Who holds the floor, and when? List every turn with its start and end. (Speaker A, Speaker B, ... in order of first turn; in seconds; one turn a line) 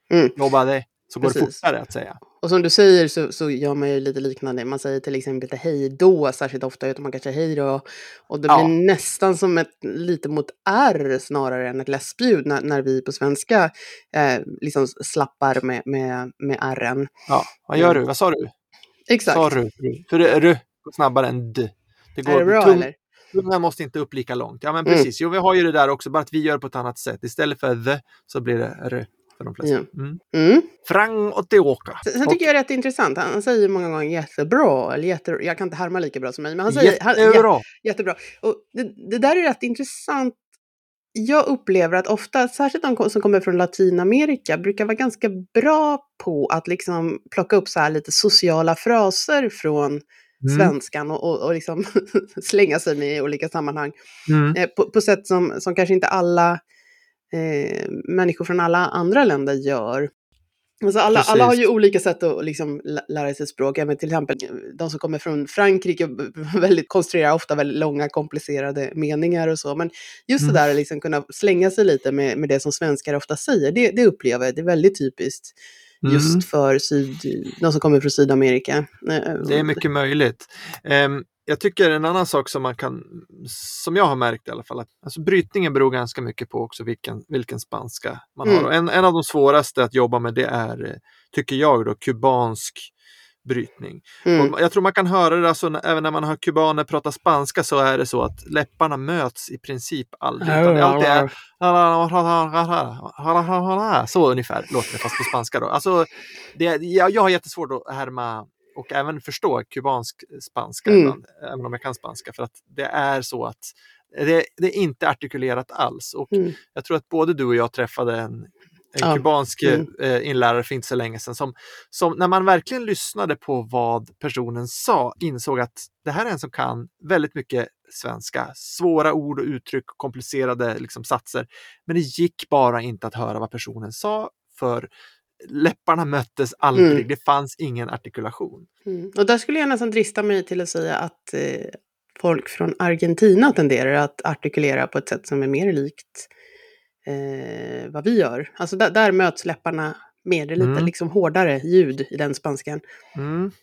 Speaker A: 0.4-2.2
Speaker B: 1.2-1.6
Speaker B: 2.4-17.1
Speaker A: 17.3-18.5
Speaker B: 19.1-19.5
Speaker A: 19.3-30.2
Speaker B: 22.2-22.9
Speaker B: 29.6-30.7
Speaker A: 30.9-32.5
Speaker B: 32.1-40.4
Speaker A: 36.7-37.6
Speaker B: 41.1-54.0
Speaker A: 50.4-50.7
Speaker A: 54.3-54.6
Speaker B: 54.5-56.6
Speaker B: 57.3-60.1
Speaker B: 60.8-75.5
Speaker A: 61.1-61.6
Speaker A: 76.0-76.4
Speaker B: 76.1-79.8
Speaker A: 79.4-92.9
Speaker A: 93.5-134.9
Speaker B: 94.3-94.5
Speaker B: 100.4-101.3
Speaker B: 110.9-111.1
Speaker B: 119.0-119.9
Speaker A: 135.4-138.7
Speaker B: 136.8-137.0
Speaker B: 138.9-146.3
Speaker B: 147.1-152.8
Speaker A: 150.6-150.9
Speaker A: 153.2-153.5